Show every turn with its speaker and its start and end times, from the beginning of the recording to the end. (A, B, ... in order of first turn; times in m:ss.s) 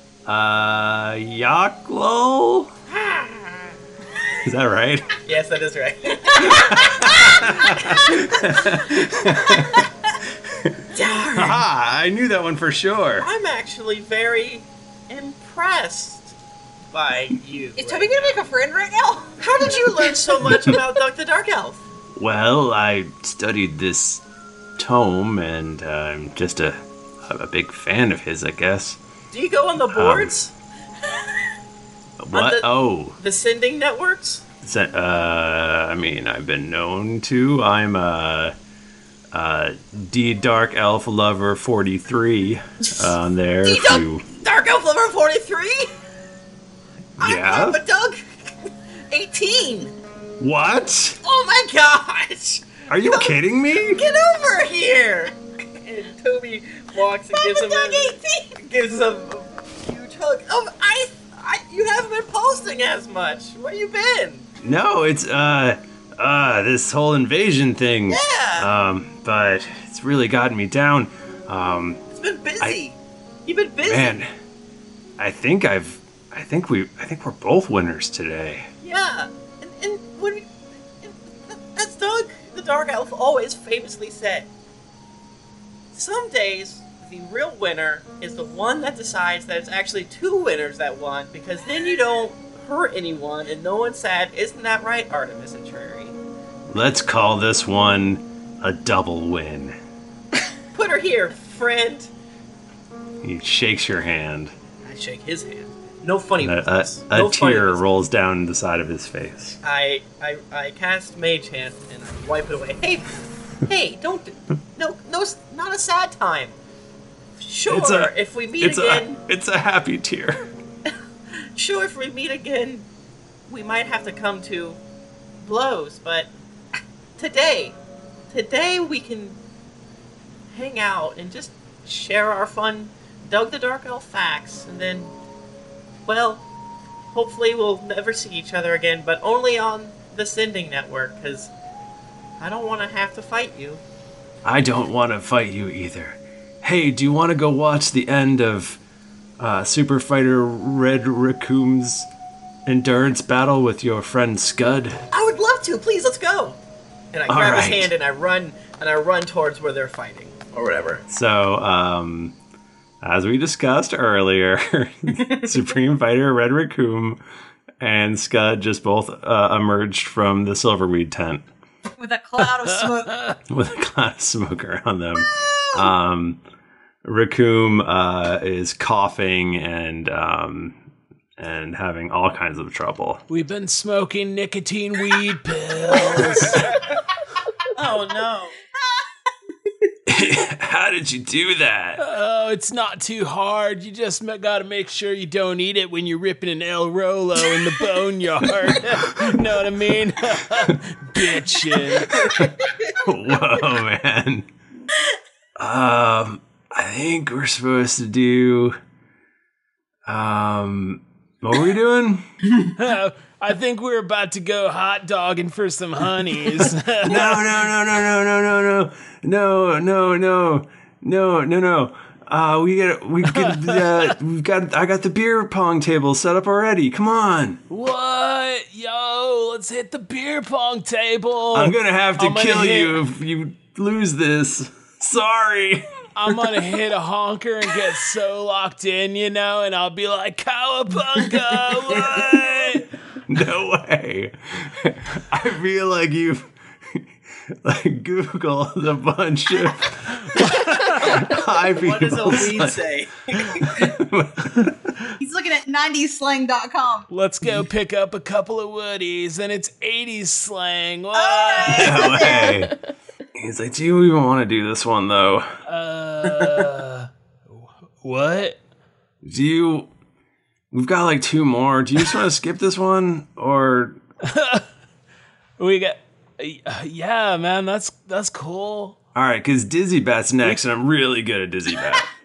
0:00.3-0:02.7 A
0:02.9-0:03.7 B
0:04.4-0:05.1 A
0:05.3-0:08.1 B
0:06.4-0:09.8 A
0:10.9-0:11.6 B
0:11.3-0:13.3 A
0:13.2-0:16.4 B
0:16.9-0:18.4 B
0:17.8-0:20.1 C
0:19.4-0:21.8 B
0:22.2-0:24.2 A
0:24.8-0:29.0 A
0:29.3-0:30.5 B
0:29.9-0:30.3 A
0:32.2-0:33.2 A
0:32.3-0:32.7 B
0:33.2-0:34.4 B
0:34.6-0:38.5 A
0:39.3-0:44.2 A
0:43.7-0:45.9 B
0:47.2-0:47.8 A
0:47.2-0:48.2 B
0:49.1-0:49.9 B
0:50.4-0:51.2 A
0:51.2-0:53.4 B
0:52.9-0:54.0 A
0:54.0-1:04.5 B
0:57.3-0:58.5 C
1:04.6-1:12.0 A
1:08.1-1:08.7 B
1:12.1-1:14.2 B
1:13.8-1:14.3 A
1:15.2-1:18.7 A
1:18.8-1:20.5 B
1:21.0-1:24.5 B
1:25.9-1:36.2 B
1:36.7-1:39.8 A
1:40.8-1:42.1 B
1:43.2-1:44.5 A
1:44.8-1:47.8 B
1:46.4-1:49.6 A
1:49.6-1:53.1 B
1:53.6-1:56.6 B
1:57.4-1:59.2 B
1:57.7-2:00.4 A
2:01.6-2:02.9 B
2:03.5-2:04.8 B
2:05.4-2:06.3 B
2:07.2-2:07.8 B
2:08.3-2:09.4 B
2:10.5-2:15.1 B
2:16.1-2:16.4 B
2:17.1-2:21.5 B
2:22.4-2:23.8 B
2:24.4-2:28.8 A
2:29.4-2:32.1 A
2:32.7-2:35.0 A
2:35.1-2:36.6 B
2:37.1-2:41.0 B
2:37.3-2:37.9 A
2:41.1-2:42.4 A
2:43.0-2:47.2 A
2:47.8-2:51.5 A
2:52.0-2:53.2 C
2:52.4-2:53.4 D
2:53.5-2:56.4 A
2:57.0-3:00.8 A
3:01.4-3:03.2 A
3:03.3-3:06.8 D
3:07.8-3:08.5 B
3:10.1-3:12.0 A
3:12.0-3:22.1 D
3:22.2-3:22.4 C
3:23.0-3:24.5 A
3:25.6-3:28.8 A
3:30.1-3:32.2 A
3:32.8-3:37.6 D
3:37.0-3:47.6 A
3:43.3-3:44.2 D
3:47.7-3:53.0 D
3:51.5-3:55.9 A
3:56.2-4:02.8 D
4:02.1-4:02.4 A
4:03.3-4:07.1 A
4:07.6-4:14.9 A
4:11.3-4:13.9 B
4:15.2-4:17.1 C
4:17.1-4:22.4 D
4:21.1-4:22.6 C
4:21.7-4:22.8 A
4:23.4-4:25.5 A
4:25.7-4:28.6 D
4:29.2-4:29.9 A
4:30.7-4:34.0 A
4:34.2-4:34.7 D
4:35.6-4:39.0 D
4:39.2-4:42.1 A